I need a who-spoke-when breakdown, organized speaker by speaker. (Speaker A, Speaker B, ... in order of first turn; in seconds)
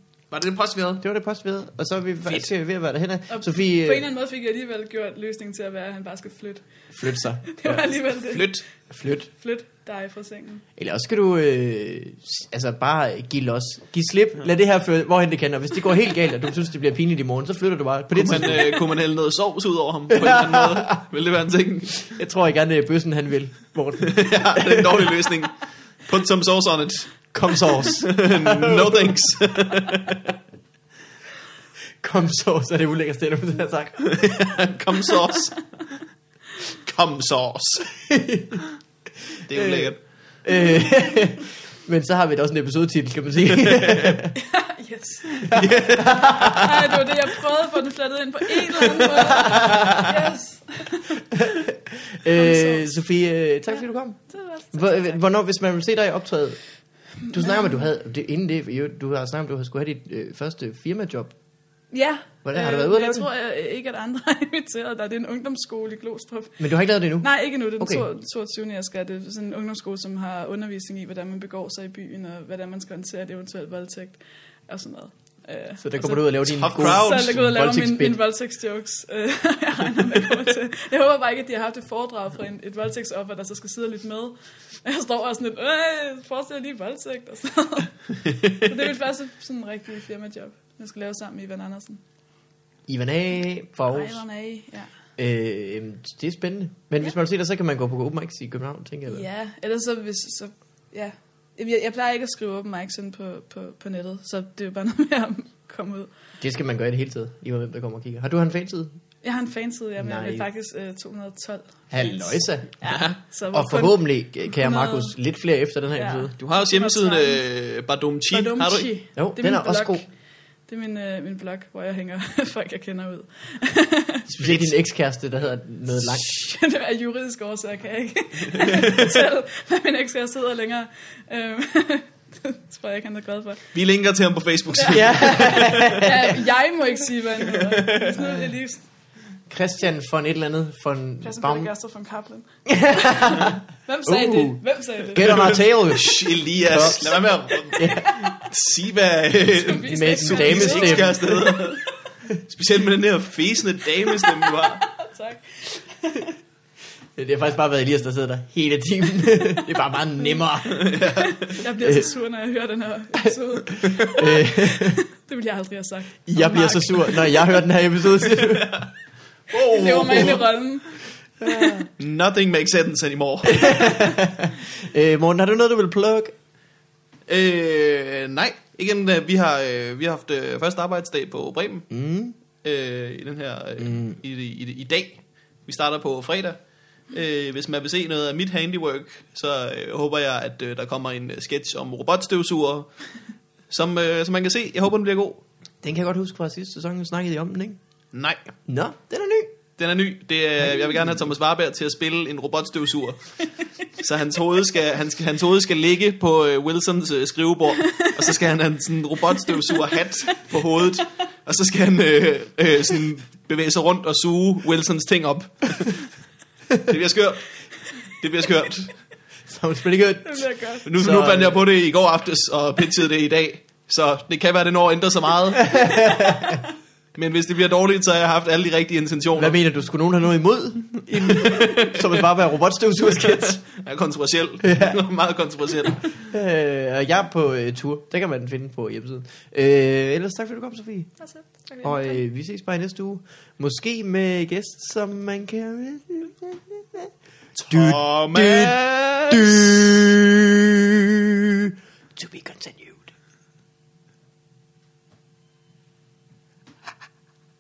Speaker A: 0.3-1.0, 8.2-8.6, 18.1-22.2, 24.0-30.3, 34.0-35.7, 36.7-37.9, 39.4-40.0, 43.7-44.2, 45.3-46.9, 76.5-77.4, 112.9-113.2, 116.4-118.9, 124.4-124.7, 128.6-128.8, 133.7-136.0, 137.7-138.1, 145.2-151.8, 152.5-154.9, 160.7-161.5, 168.4-168.9, 169.5-170.5, 172.0-173.8, 177.3-181.9, 182.6-186.6, 187.1-192.9, 193.7-195.4, 198.1-198.5, 199.8-216.1, 216.8-217.6, 218.2-218.9, 220.8-225.9, 227.1-229.6, 231.1-232.2, 233.1-236.2, 247.6-249.8
Speaker B: 1.0-4.1, 6.9-7.8, 8.9-9.3, 10.8-18.8, 20.1-21.0, 22.0-25.3, 27.3-29.2, 32.0-34.6, 37.9-38.6, 39.3-44.4, 45.4-46.9, 48.7-50.3, 51.3-54.2, 54.7-56.6, 57.3-61.3, 62.4-63.3, 66.6-68.0, 75.8-78.2, 92.9-94.2, 95.2-99.2, 106.4-108.9, 110.0-110.5, 111.9-112.7, 113.5-116.3, 119.2-120.0, 124.3-126.2, 134.8-136.4, 138.1-138.5, 139.5-141.7, 142.7-147.2, 147.7-148.2, 149.8-151.5, 157.2-161.0, 161.8-162.1, 163.2-165.0, 166.2-168.9, 170.0-170.4, 171.4-171.8, 173.4-176.3, 181.9-182.3, 195.8-197.8, 198.7-199.5, 219.5-221.6, 225.6-226.6, 229.3-233.6, 234.6-235.0, 236.2-241.1, 241.8-253.1
Speaker C: 3.3-10.6, 44.4-51.2, 52.3-53.0, 54.3-55.2, 61.9-66.6, 67.2-92.0, 93.9-94.9, 99.1-106.1, 109.2-115.1, 115.9-117.4, 118.3-120.1, 120.7-124.3, 126.0-133.7, 134.8-138.8, 141.2-145.5, 147.8-148.3, 149.5-151.9, 154.1-156.4, 160.2-167.6, 169.5-170.9, 209.5-210.4, 220.2-220.9, 241.2-242.2